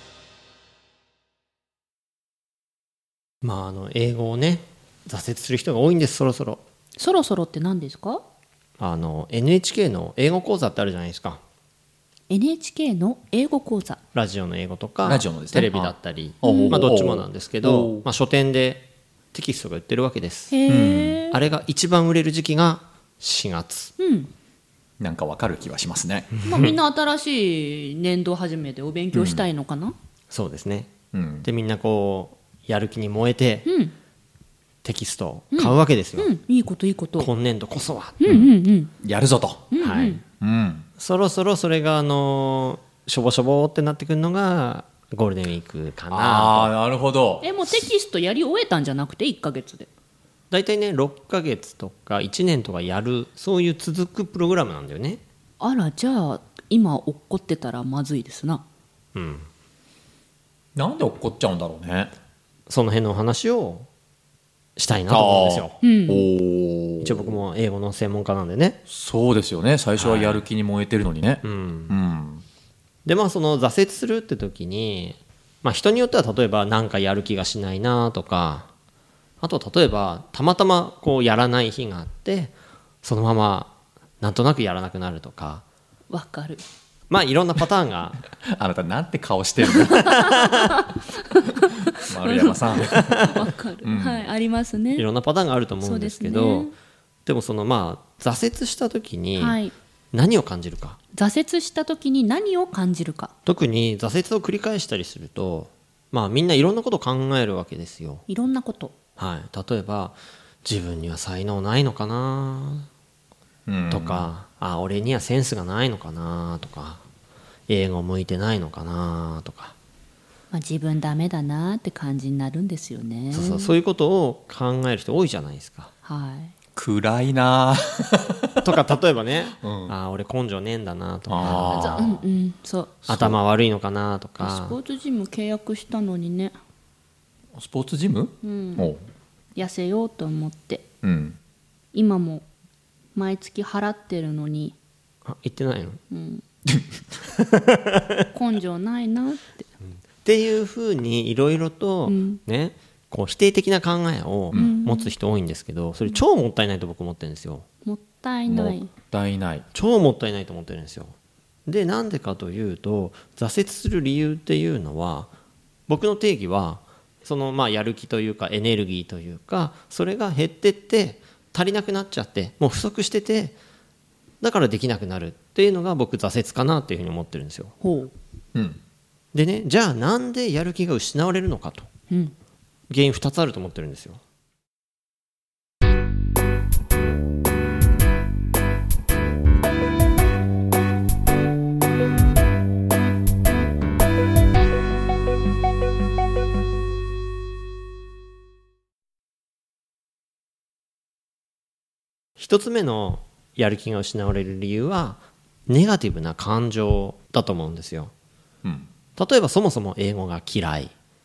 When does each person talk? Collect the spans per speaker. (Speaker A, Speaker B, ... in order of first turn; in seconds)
Speaker A: 3.4-6.6, 8.8-11.4, 14.1-20.6, 21.3-23.9, 30.3-33.7, 34.8-36.3, 37.2-38.4, 39.8-40.2, 41.0-46.7, 50.5-55.2, 59.1-59.5, 62.7-63.9, 64.8-65.8, 67.0-68.8, 70.0-70.4, 71.4-71.9, 73.0-78.7, 79.4-85.6, 87.1-88.2, 92.8-93.4, 95.0-96.7, 97.2-99.6, 100.1-101.0, 103.5-108.2, 109.2-112.9, 113.9-117.0, 117.7-119.8, 123.3-125.9, 128.6-132.2, 133.1-134.8, 145.2-146.0, 147.4-148.2, 150.2-157.7, 159.7-161.1, 161.7-165.3, 165.9-173.6, 174.4-177.8, 179.3-181.9, 182.9-184.2, 202.4-208.1, 209.2-210.9
Speaker B: 7.0-8.2, 12.3-14.0, 16.4-16.8, 20.5-21.4, 24.0-24.3, 26.4-29.9, 33.6-33.9, 35.5-37.3, 38.2-38.9, 39.7-40.2, 47.4-49.9, 55.6-58.6, 65.8-66.3, 86.1-86.6, 89.7-95.0, 95.8-96.7, 99.4-99.7, 101.1-103.3, 108.3-108.9, 120.5-123.7, 126.0-126.5, 131.7-132.9, 134.4-136.5, 138.4-138.9, 139.6-140.8, 141.9-142.4, 143.1-144.8, 146.1-146.4, 148.3-149.7, 152.1-152.4, 154.5-155.1, 157.8-158.9, 177.8-178.1
Speaker C: 15.0-18.0, 20.7-21.2, 25.0-26.4, 29.1-29.4, 31.1-31.4, 39.0-39.7, 40.4-40.9, 46.1-47.5, 60.8-62.1, 64.9-67.4, 68.9-72.4, 88.5-90.5, 91.8-94.3, 113.7-114.2, 126.8-128.8, 129.6-129.9, 131.3-132.2, 133.0-133.4, 137.5-139.0, 141.0-141.4, 158.5-159.7, 208.6-208.9